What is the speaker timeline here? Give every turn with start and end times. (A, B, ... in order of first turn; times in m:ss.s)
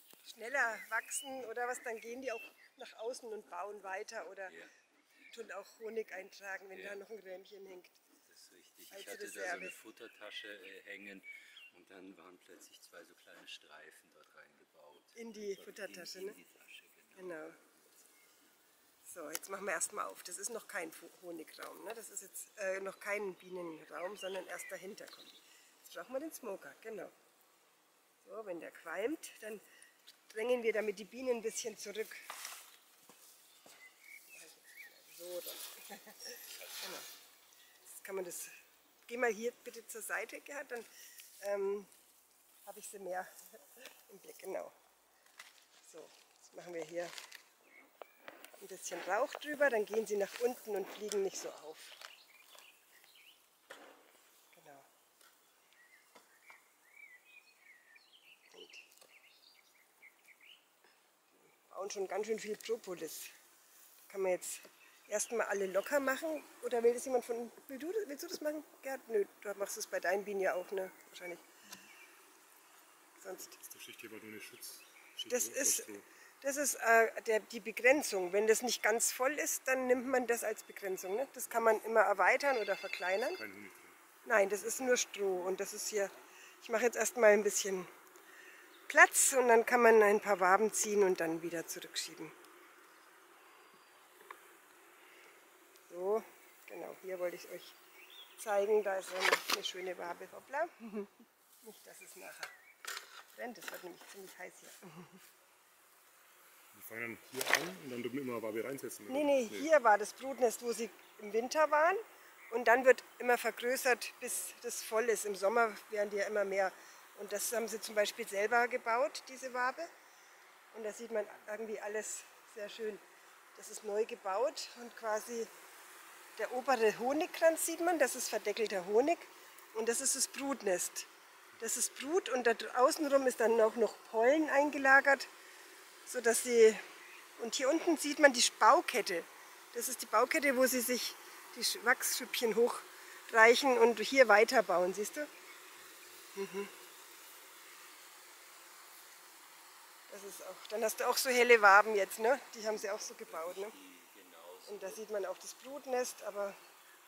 0:00.2-0:04.6 A
0:05.3-0:08.0 A
0:06.7-0:07.0 B
0:08.3-0:17.5 B
0:08.9-0:09.8 A
0:15.2-0:16.4 A
0:17.2-0:17.6 A
0:19.0-0:27.1 A
0:28.2-0:29.6 A
0:30.3-0:32.3 A
0:34.3-0:37.1 A
0:37.8-0:41.9 A
0:42.6-0:44.7 A
0:45.8-0:47.1 A
0:48.6-0:52.0 A
0:54.5-0:54.9 A
0:58.5-0:58.8 A
1:01.4-1:03.3 A
1:04.1-1:11.5 A
1:13.2-1:13.6 A
1:13.6-1:16.1 C
1:15.3-1:23.4 A
1:23.3-1:24.0 C
1:24.2-1:27.9 A
1:28.9-1:32.3 A
1:35.9-1:37.8 A
1:38.4-1:42.5 A
1:43.3-1:45.2 A
1:46.7-1:49.7 C
1:49.1-1:59.9 A
2:00.7-2:03.0 A
2:03.6-2:05.5 A
2:06.4-2:11.1 A
2:11.6-2:15.3 A
2:16.1-2:16.8 A
2:17.4-2:25.3 A
2:26.4-2:26.7 A
2:30.1-2:33.8 A
2:32.9-2:35.0 B
2:34.7-2:36.6 A